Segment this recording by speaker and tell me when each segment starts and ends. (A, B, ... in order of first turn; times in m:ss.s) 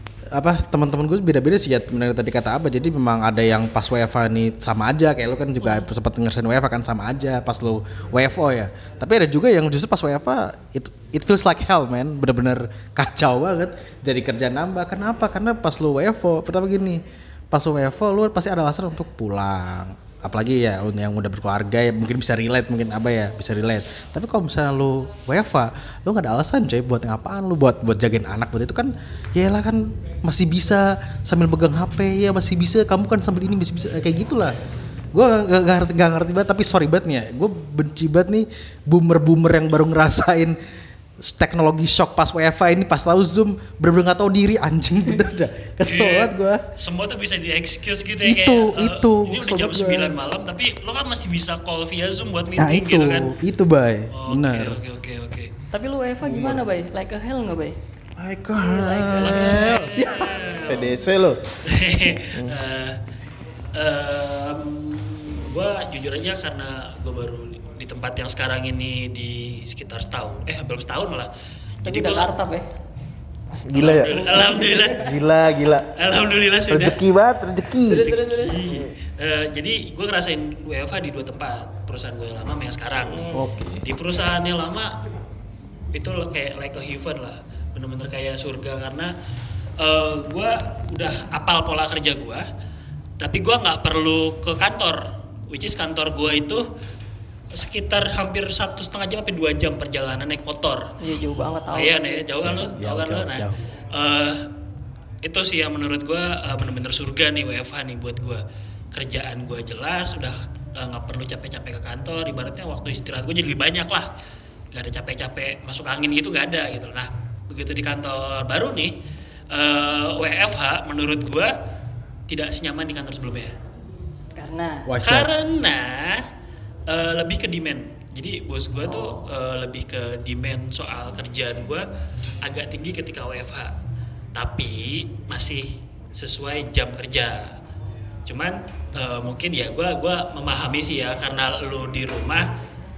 0:00.3-0:34.6 A
0:05.6-0:05.9 B
0:35.1-0:40.6 A
0:41.2-0:46.6 A
0:45.8-0:53.4 C
0:48.2-0:50.2 A
0:52.6-0:54.8 A
0:54.1-0:55.5 C
0:55.7-0:57.8 B
0:56.2-0:56.6 D
0:58.2-1:01.4 D
0:58.5-0:59.7 B
0:59.2-1:01.0 C
0:59.6-1:00.4 A
1:01.6-1:03.0 C
1:03.7-1:11.3 C
1:11.8-1:12.3 C
1:11.8-1:12.7 B
1:13.7-1:15.9 D
1:13.7-1:15.2 C
1:14.2-1:15.0 B
1:16.0-1:17.0 C
1:16.7-1:18.2 D
1:17.9-1:18.7 B
1:18.1-1:23.3 C
1:23.1-1:23.4 B
1:23.4-1:23.8 A
1:23.8-1:25.0 C
1:25.9-1:29.1 C
1:29.8-1:32.4 C
1:33.2-1:36.6 C
1:37.5-1:40.9 C
1:41.0-1:42.6 B
1:41.7-1:44.4 C
1:42.4-1:43.6 A
1:45.2-1:48.4 C
1:48.9-1:54.1 C
1:54.7-1:58.9 C
1:59.5-2:01.5 C
2:02.3-2:03.5 C
2:04.4-2:04.9 B
2:04.9-2:05.3 A
2:05.0-2:06.3 C
2:06.9-2:11.8 C
2:08.8-2:09.3 B
2:12.4-2:13.7 C
2:14.3-2:17.5 C
2:18.3-2:22.5 C